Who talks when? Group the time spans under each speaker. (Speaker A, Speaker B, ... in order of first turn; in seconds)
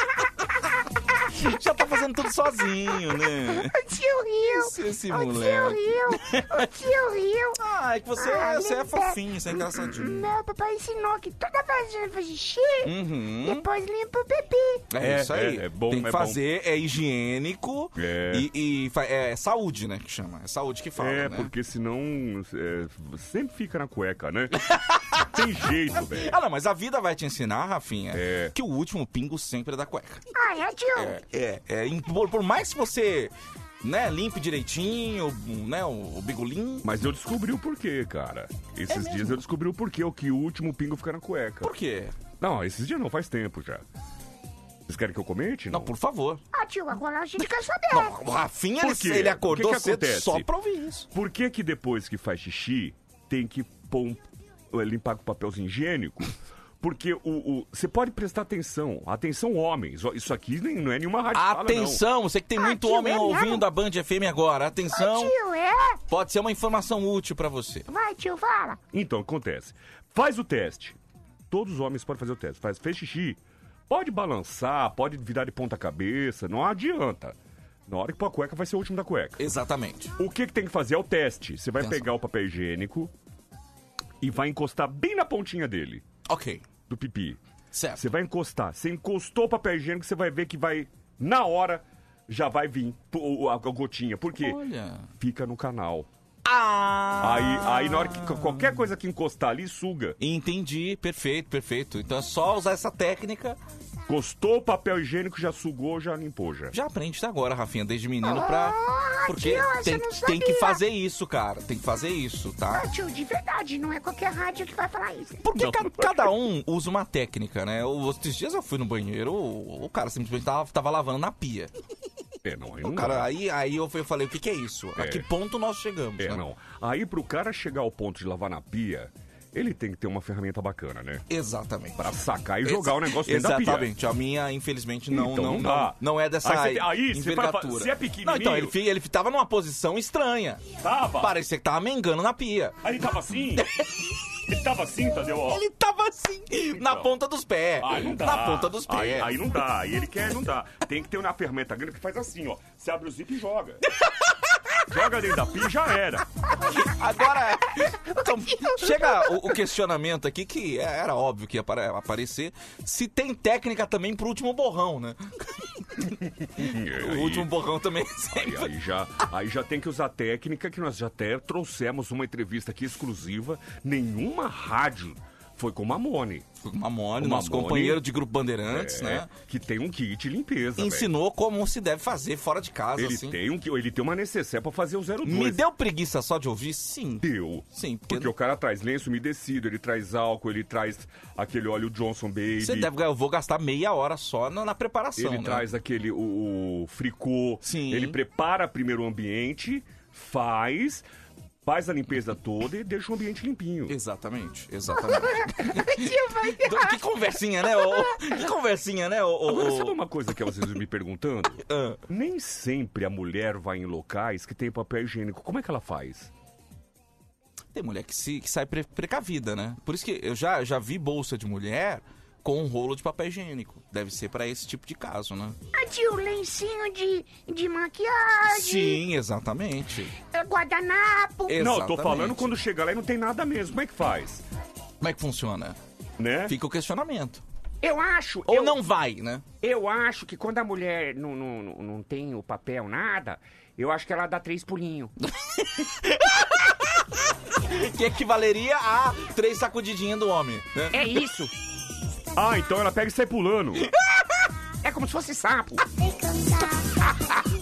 Speaker A: 1.3-3.7, 4.5-6.7, 7.6-10.3, 12.8-13.6, 14.9-21.5, 24.7-25.2, 26.1-30.2, 30.9-33.3, 33.8-36.9, 38.9-39.4, 41.6-42.1, 45.7-46.4, 47.4-51.1, 61.3-65.3, 66.1-67.9, 79.4-80.1, 86.3-86.6, 87.7-88.0, 94.4-95.1, 96.5-98.8, 100.2-103.6, 106.7-112.9, 115.4-121.7, 122.8-126.4, 131.3-132.0, 132.7-140.6, 141.2-142.8, 143.6-143.8, 145.5-149.3, 156.7-168.7, 176.6-179.3, 180.8-183.4, 185.2-187.2, 187.8-188.3, 192.6-195.7, 197.6-198.2, 203.9-210.0, 211.7-212.0, 217.7-225.6, 228.5-230.2, 231.5-232.6, 235.0-235.8, 236.5-237.4, 238.5-239.4, 246.0-246.7, 247.7-251.1
Speaker B: 3.5-7.6, 8.2-12.9, 13.4-14.8, 30.4-31.2, 46.5-48.2, 62.6-63.6, 64.9-66.0, 67.9-68.8, 108.2-110.8, 112.7-115.9, 158.8-159.3, 205.1-207.0, 207.6-208.2, 225.8-229.0, 230.3-231.6, 256.0-257.0
Speaker C: 15.0-16.4, 18.0-18.5, 21.0-24.6, 25.3-26.3, 28.1-28.5, 36.8-41.7, 42.4-43.9, 44.9-45.9, 48.8-50.5, 51.1-62.0, 68.9-71.0, 71.5-77.4, 77.9-79.4, 80.2-83.1, 84.2-86.0, 86.9-87.4, 88.0-94.6, 95.2-96.1, 97.2-100.2, 104.1-106.8, 122.4-123.3, 125.0-125.3, 126.2-131.2, 132.0-133.9, 135.1-138.7, 140.8-141.3, 142.8-143.7, 144.5-145.6, 146.8-147.1, 147.8-153.8, 154.9-156.2, 166.6-167.5, 168.3-176.5, 177.2-178.0, 178.7-181.1, 183.0-185.6, 187.2-192.9, 195.2-201.1, 201.7-203.9, 209.5-216.3, 231.6-234.4, 236.2-236.5, 252.3-253.9
Speaker D: 237.8-238.8, 239.6-245.1, 250.9-251.5, 254.8-255.8